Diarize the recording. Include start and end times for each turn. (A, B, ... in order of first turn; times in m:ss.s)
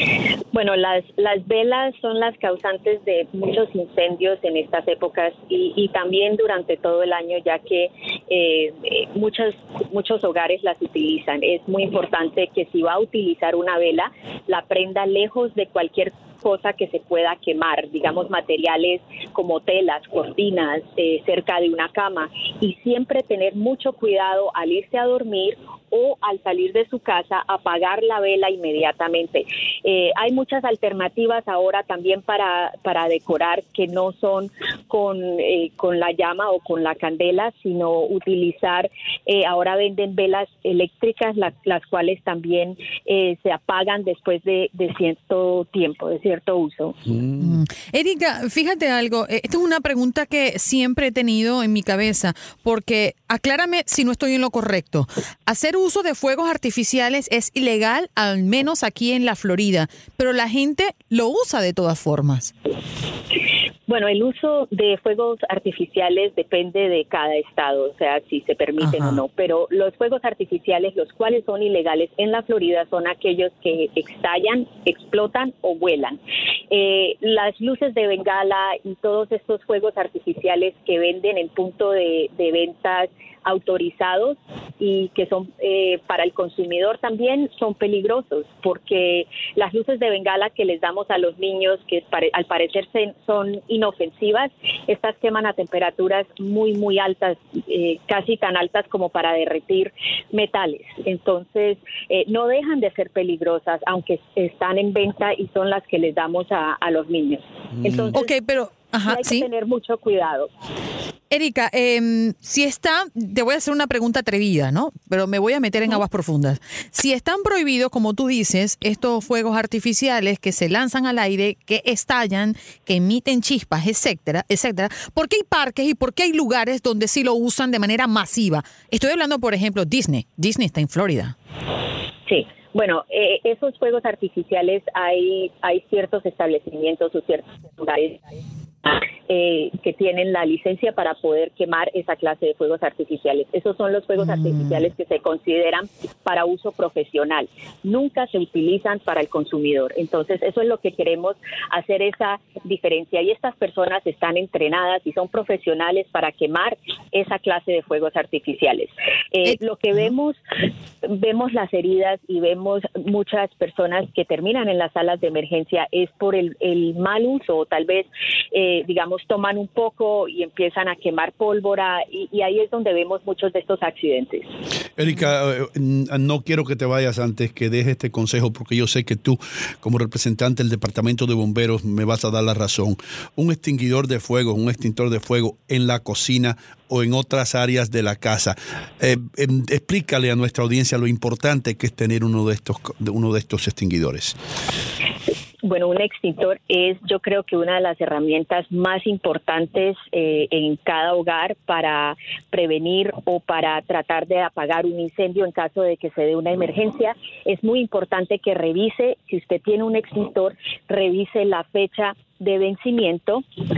0:00.5-0:47.0 A
0:47.4-1:02.5 B
1:03.9-1:16.2 A
1:08.8-1:09.2 B
1:16.7-1:48.3 A
1:48.1-1:49.5 B
1:49.1-1:50.5 A
1:51.3-2:11.4 B
2:12.3-2:18.2 A
2:18.8-2:40.4 A
2:24.2-2:24.8 B
2:41.0-2:54.5 A
2:55.0-3:14.4 C
3:15.6-3:33.4 A